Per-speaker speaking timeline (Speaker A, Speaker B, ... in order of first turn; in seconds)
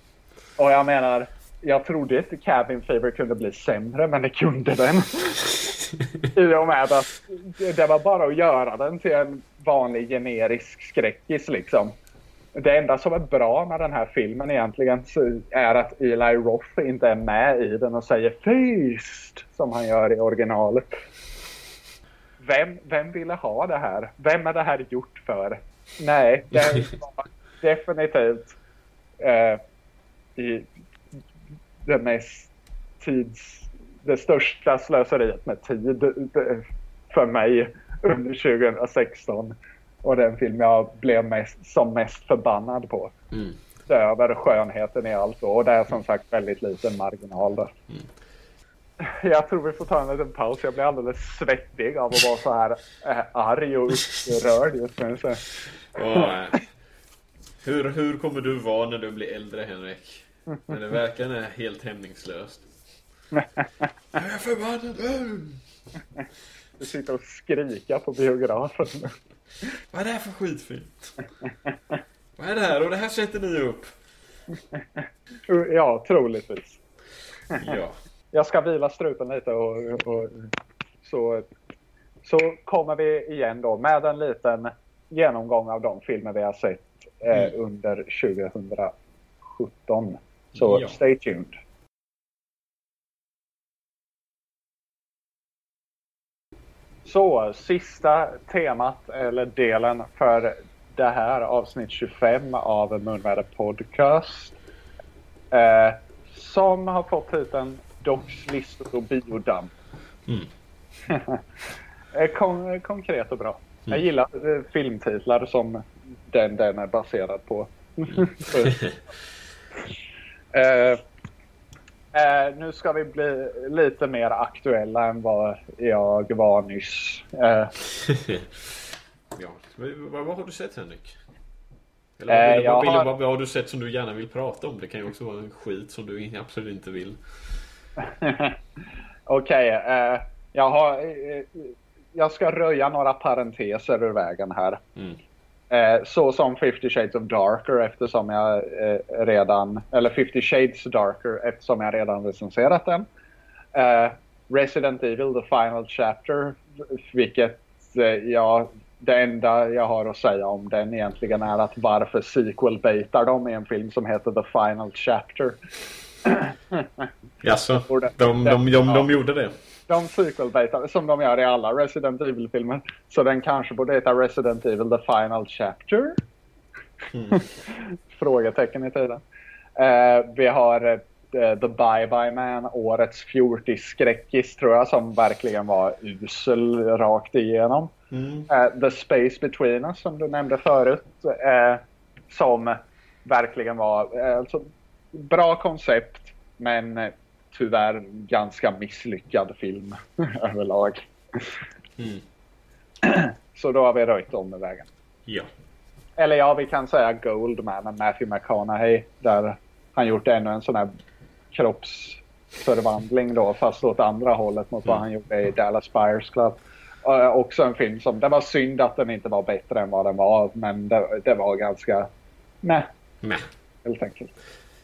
Speaker A: 0.6-5.5, 6.3-11.9, 12.6-20.9, 22.4-28.6, 29.2-29.6, 30.4-30.7, 31.8-43.1, 43.9-47.7, 49.0-55.4, 63.3-63.9, 66.8-69.1, 71.4-72.0, 74.7-76.8, 78.3-81.5, 82.2-88.9, 89.5-91.5, 97.0-104.5, 105.5-109.7, 111.1-111.4, 112.1-118.8, 120.5-121.0, 122.1-127.7, 132.3-133.1, 138.0-138.6, 139.3-144.8, 145.7-153.1, 153.7-165.6, 166.2-167.1, 167.8-169.1, 169.9-176.2, 177.3-179.2, 179.8-187.9, 188.5-201.6, 203.0-204.9, 206.2-210.9, 211.5-222.1, 222.6-222.9, 223.8-224.3
Speaker B: 5.8-6.3, 43.3-43.6, 55.9-56.6, 57.6-62.7, 64.1-65.6, 69.9-71.1, 72.3-73.9, 77.6-78.0, 90.5-91.0, 118.5-119.0, 128.0-128.5, 129.3-131.2, 132.2-137.2, 167.4-169.5, 177.1-177.4, 188.1-188.5, 202.0-202.2, 223.2-223.5